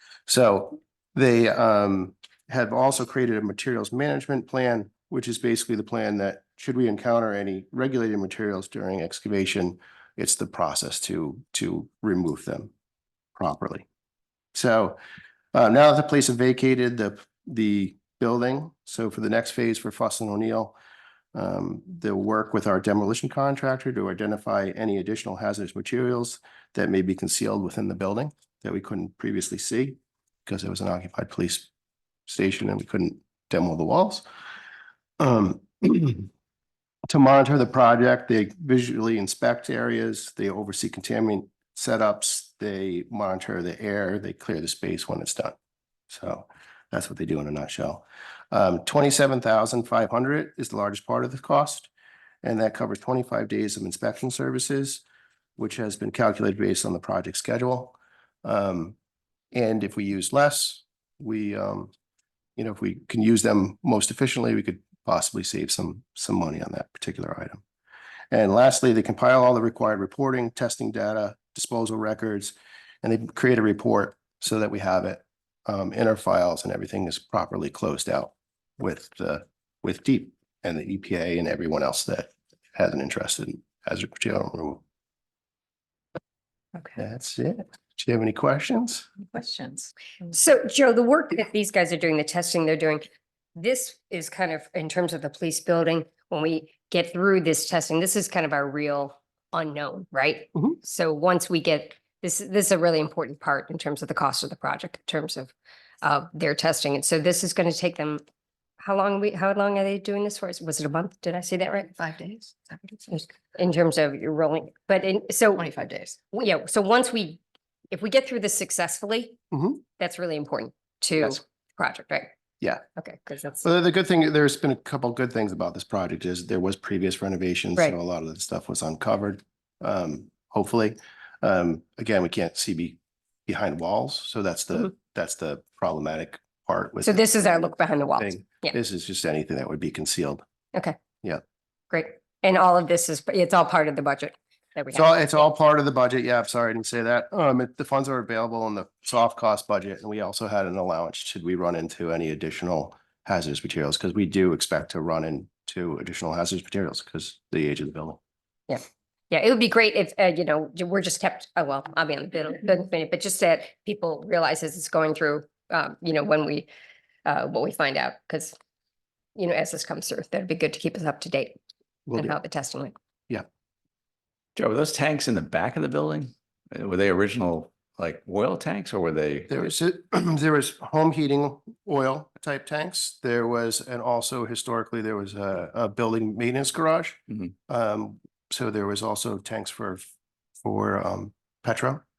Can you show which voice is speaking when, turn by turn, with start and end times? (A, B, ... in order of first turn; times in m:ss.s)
0:00.3-0:12.7 A
0:13.4-0:13.9 A
0:14.5-0:15.0 A
0:15.5-0:20.8 A
0:21.3-0:31.7 A
0:32.3-0:34.2 A
0:35.2-0:36.3 A
0:37.1-0:45.6 A
0:46.1-0:51.9 A
0:52.4-0:55.0 A
0:55.6-0:59.0 A
0:59.5-1:01.9 A
1:02.6-1:07.6 A
1:08.3-1:24.8 A
1:27.0-1:29.1 A
1:29.3-1:30.3 B
1:30.3-1:33.0 C
1:33.6-1:48.2 C
1:48.8-1:51.9 C
1:52.0-1:53.2 B
1:53.1-1:55.7 C
1:55.6-1:56.2 B
1:56.3-1:59.4 C
1:59.5-1:59.8 A
2:00.0-2:02.3 C
2:03.0-2:03.6 C
2:03.6-2:17.3 A
2:17.0-2:18.8 C
2:18.2-2:20.4 A
2:21.9-2:25.5 C
2:24.9-2:38.2 A
2:38.7-2:46.7 C
2:47.3-2:48.6 C
2:49.4-2:51.6 C
2:52.1-2:52.4 A
2:52.2-2:52.9 C
2:54.6-2:59.5 D
2:59.5-3:10.0 A
3:10.6-3:12.0 A